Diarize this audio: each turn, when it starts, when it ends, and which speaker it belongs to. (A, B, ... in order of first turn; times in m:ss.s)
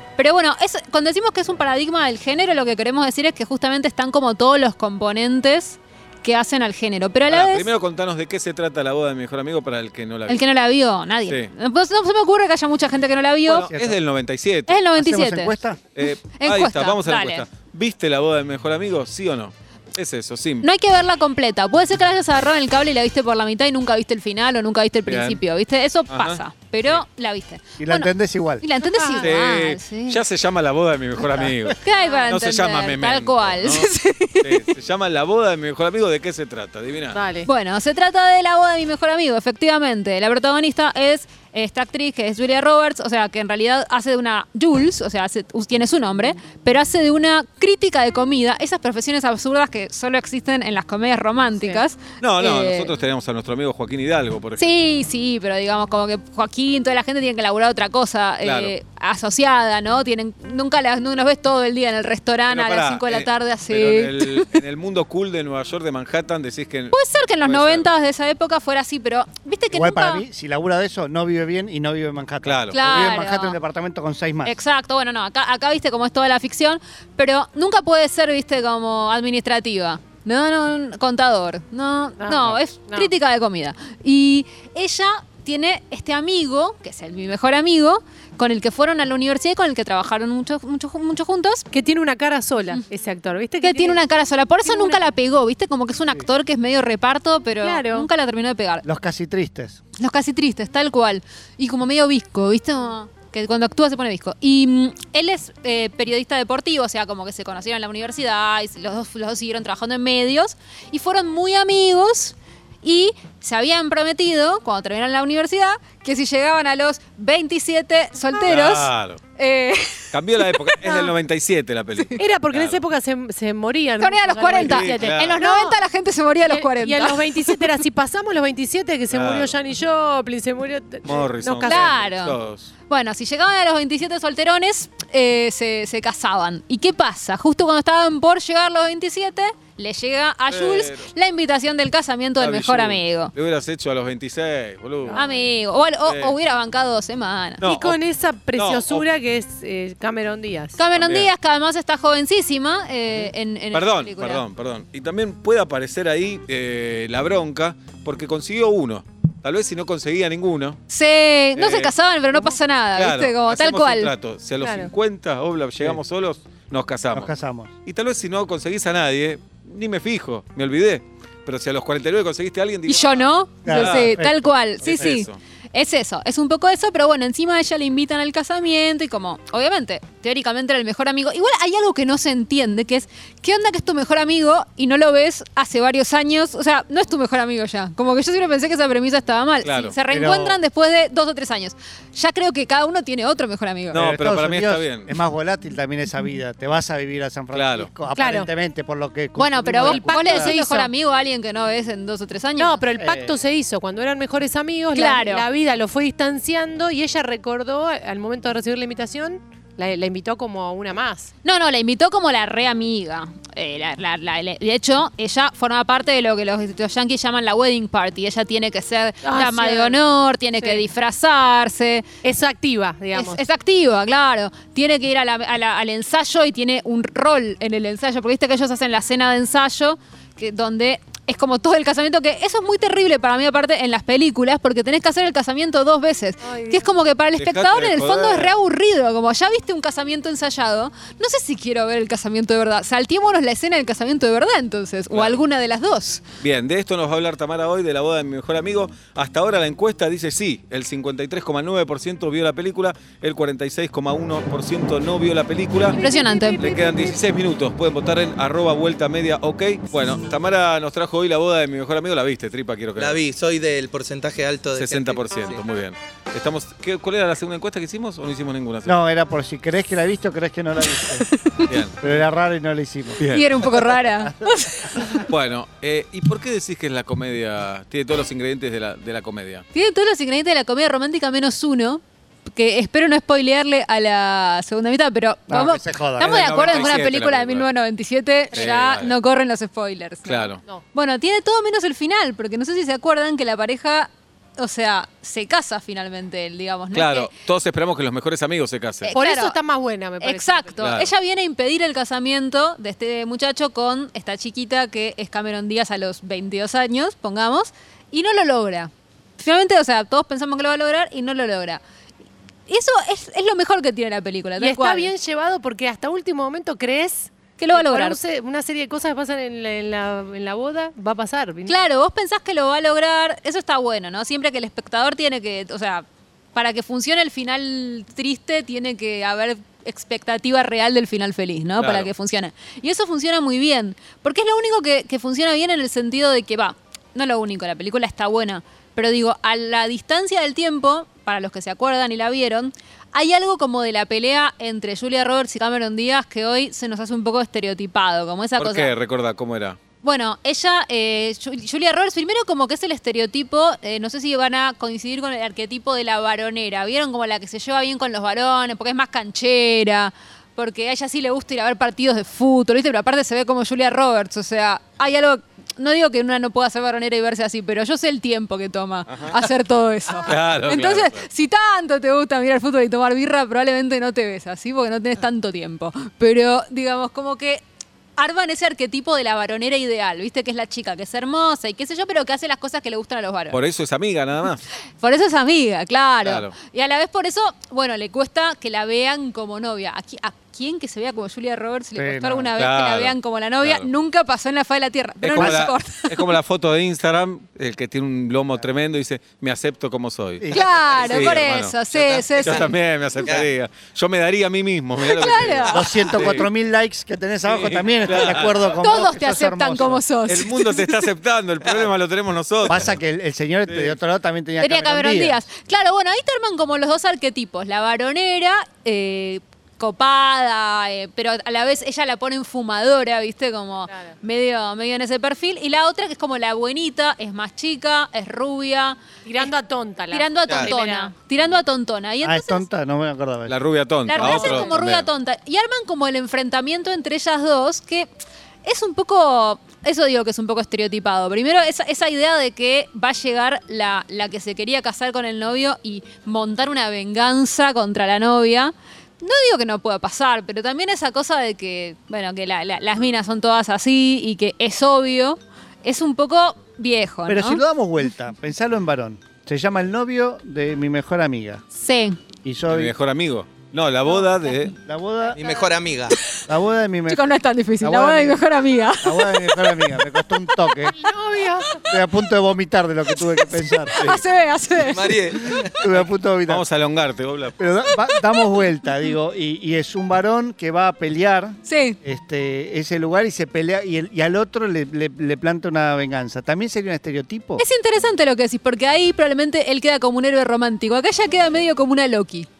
0:00.2-0:07.7 A
0:07.3-0:10.4 B
0:10.3-0:13.7 A
0:13.4-0:14.8 B
0:13.7-0:14.0 C
0:14.7-0:15.5 A
0:14.9-0:15.8 C
0:16.0-0:20.7 B
0:16.4-0:17.4 A
0:20.6-0:30.2 A
0:25.1-0:25.4 B
0:26.1-0:27.0 B
0:27.8-0:28.7 C
0:28.9-0:29.3 D
0:29.2-0:37.2 B
0:31.8-0:34.6 A
0:32.0-0:32.3 D
0:37.1-0:37.5 D
0:37.5-0:52.9 A
0:52.2-0:54.7 B
0:54.6-1:04.5 A
0:58.4-0:58.8 B
1:02.5-1:07.9 B
1:06.9-1:10.2 A
1:09.7-1:14.6 C
1:12.4-1:13.2 B
1:12.7-1:13.6 A
1:14.4-1:31.7 A
1:22.2-1:23.1 D
1:31.7-1:34.0 D
1:33.6-1:38.8 A
1:34.6-1:35.0 D
1:37.6-1:38.1 D
1:38.8-1:39.8 C
1:40.0-2:00.8 A
1:58.4-1:59.2 B
2:00.1-2:02.8 B
2:00.8-2:01.1 D
2:02.2-2:05.8 D
2:04.0-2:07.7 A
2:04.5-2:05.4 B
2:06.5-2:11.9 D
2:09.1-2:09.6 B
2:11.1-2:12.7 B
2:11.6-2:12.4 A
2:12.9-2:23.3 A
2:20.5-2:21.1 B
2:22.4-2:25.3 B
2:25.1-2:25.4 D
2:25.1-2:27.6 A
2:26.1-2:26.4 B
2:27.6-2:28.0 B
2:27.6-2:30.8 D
2:28.5-2:29.1 B
2:30.8-2:34.4 A
2:31.0-2:31.3 B
2:33.7-2:40.8 B
2:40.9-2:44.1 A
2:41.6-2:41.9 B
2:43.0-2:47.3 B
2:44.6-2:44.9 D
2:47.1-2:47.7 C
2:47.9-2:54.2 B
2:52.9-3:14.0 A
2:53.6-2:55.1 C
2:54.8-2:55.4 B
3:09.6-3:10.0 B
3:10.1-3:10.6 C
3:13.9-3:15.1 B
3:14.0-3:20.6 C
3:17.5-3:17.9 B
3:18.2-3:18.5 D
3:19.4-3:22.8 A
3:19.8-3:20.9 D
3:22.6-3:31.3 D
3:23.0-3:23.4 C
3:24.9-3:25.5 A
3:31.4-3:42.0 A
3:39.2-3:40.0 D
3:42.2-3:43.4 D
3:43.1-4:06.2 A
3:56.4-3:56.9 D
3:57.4-3:58.6 B
4:05.1-4:05.4 B
4:06.4-4:16.0 B
4:15.9-4:17.2 D
4:15.9-4:16.8 A
4:16.6-4:23.2 B
4:23.0-4:25.6 E
4:24.7-4:29.0 B
4:28.9-4:31.3 C
4:31.3-4:31.7 A
4:31.7-4:32.1 B
4:32.0-4:33.2 C
4:33.2-4:33.6 B
4:33.3-4:35.2 A
4:35.3-4:39.6 B
4:39.7-4:42.0 A
4:42.5-4:57.3 A
4:45.5-4:46.9 C
4:46.2-4:47.7 B
4:48.5-4:49.1 B
4:50.3-4:50.6 B
4:56.9-4:59.1 B
4:59.0-4:59.6 A
4:59.1-5:00.8 D
5:00.2-5:11.8 A
5:00.8-5:01.1 B
5:12.7-5:15.1 A
5:14.6-5:21.8 D
5:17.6-5:18.2 A
5:21.7-5:48.9 A
5:31.8-5:32.1 B
5:48.6-5:49.8 B
5:50.0-6:17.6 A
6:09.1-6:09.4 B
6:10.2-6:11.2 B
6:18.2-6:23.6 A
6:23.5-6:24.6 B
6:25.0-6:36.4 A
6:26.2-6:26.5 B
6:32.0-6:32.5 C
6:32.6-6:33.9 B
6:35.2-6:41.8 B
6:35.3-6:35.7 C
6:40.4-6:40.9 C
6:40.5-6:42.7 A
6:40.9-6:43.5 E
6:42.4-6:46.5 B
6:45.0-6:46.3 A
6:45.7-6:50.0 C
6:47.4-6:48.8 B
6:48.7-6:51.0 A
6:50.3-6:53.0 B
6:52.7-6:55.4 C
6:53.7-6:54.0 B
6:54.6-7:09.5 A
7:03.9-7:04.2 D
7:09.2-7:11.1 D
7:10.1-7:12.7 A
7:12.2-7:13.6 C
7:13.5-7:15.1 B
7:14.1-7:18.1 A
7:14.2-7:14.7 D
7:18.6-7:37.6 A
7:37.3-7:41.6 C
7:41.7-7:42.2 A
7:42.4-7:43.0 C
7:42.7-7:44.8 B
7:44.8-7:45.5 C
7:45.4-7:46.2 E
7:46.5-7:48.4 C
7:47.1-7:50.0 A
7:49.0-7:51.0 C
7:50.9-7:51.8 D
7:51.8-7:54.0 C
7:53.7-7:55.2 A
7:54.8-7:55.9 E
7:55.5-7:56.7 C
7:56.5-7:57.6 B
7:57.6-8:07.6 C
8:01.7-8:02.0 A
8:07.6-8:12.5 A